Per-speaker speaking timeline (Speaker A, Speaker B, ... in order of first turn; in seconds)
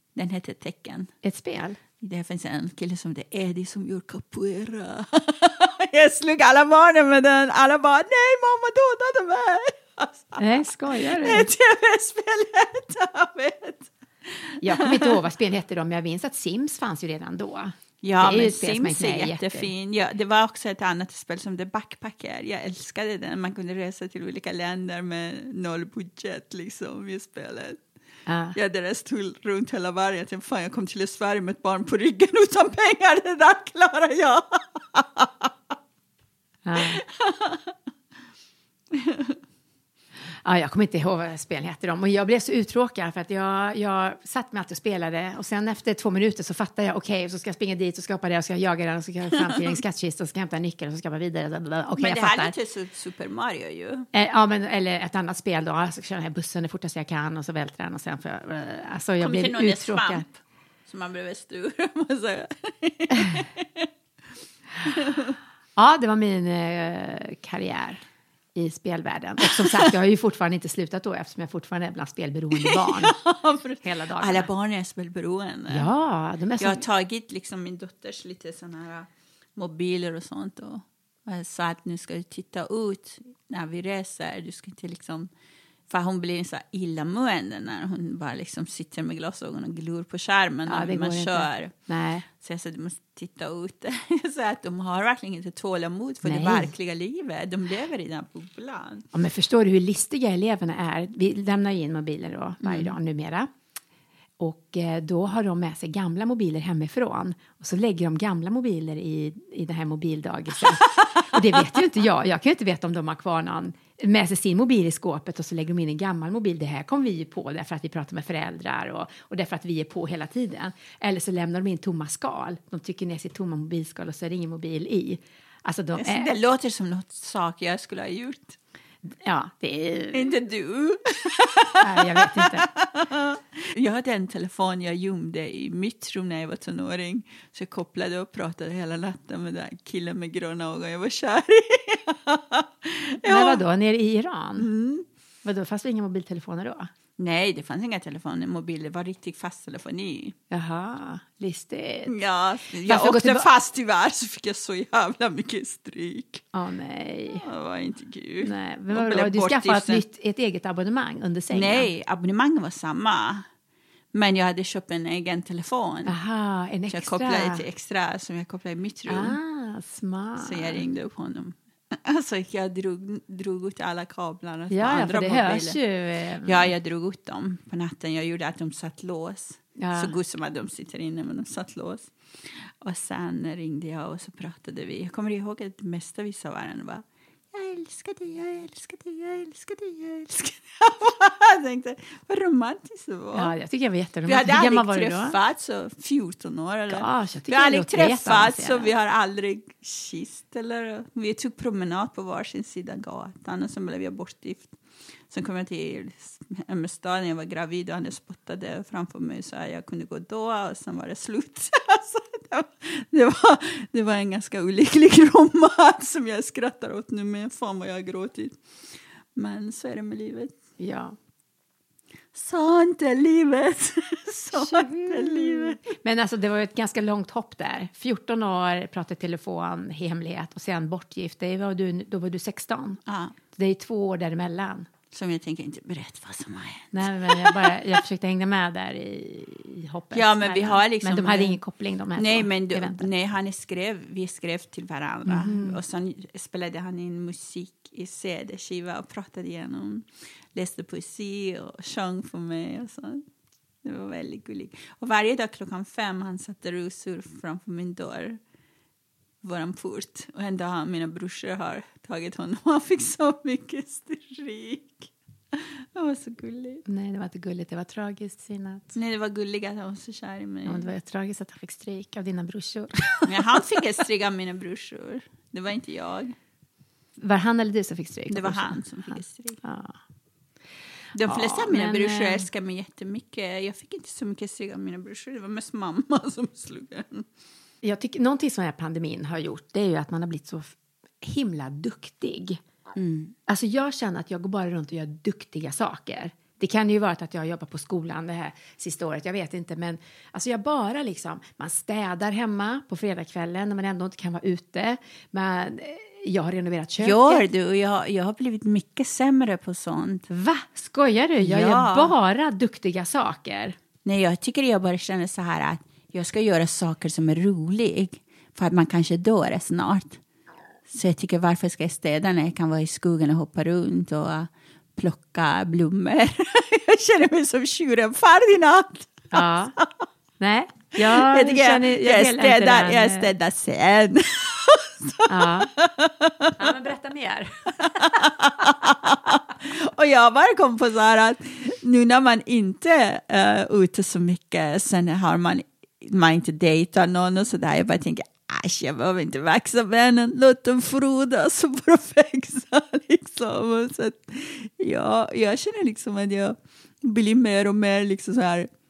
Speaker A: 0.1-1.1, 2.0-15.2, 18.0-27.8, 28.5-35.7, 36.8-37.7, 38.9-39.4, 52.0-54.1, 59.2-63.9, 64.8-65.4, 69.4-69.8, 72.5-75.9, 76.6-85.3, 85.9-91.7, 92.4-99.0, 102.6-102.9, 126.0-128.6, 130.1-143.6, 144.6-145.0, 147.2-150.3, 152.1-156.4, 157.4-160.0, 161.5-163.4, 164.1-166.1, 166.9-169.4, 170.4-175.8, 176.4-193.5, 194.2-204.8, 205.3-218.6, 219.3-220.5, 222.3-225.8, 233.1-233.3, 235.1-237.7, 240.1-241.6, 242.2-253.2, 253.8-258.4, 259.4-266.8, 268.9-270.9, 273.2-276.3, 278.3-279.6, 281.1-287.2, 292.9-293.3, 307.0-310.3, 311.4-312.1, 314.0-320.2, 320.9-330.1, 331.0-336.7, 337.8-358.7
Speaker B: 1.2-1.8, 10.4-11.5, 14.6-19.7, 28.2-28.6, 36.6-37.0, 40.4-52.5, 54.1-60.3, 65.8-68.0, 68.5-73.2, 73.8-74.5, 75.7-76.8, 90.7-92.2, 96.2-96.7, 99.1-103.5, 104.4-126.3, 129.0-130.3, 131.8-132.7, 143.2-144.7, 145.4-146.9, 150.5-152.2, 152.8-153.5, 156.5-157.4, 158.4-161.9, 166.1-167.6, 169.1-170.8, 174.7-176.7, 179.8-180.1, 193.3-195.4, 196.9-198.9, 220.8-221.2, 224.5-233.0, 233.5-234.9, 236.9-243.1, 245.2-245.8, 266.9-268.9, 270.6-273.6, 277.2-280.0, 281.2-282.4, 287.8-292.6, 293.5-307.5, 310.3-313.8, 329.3-329.7, 330.4-333.3, 335.3-335.7, 336.6-338.7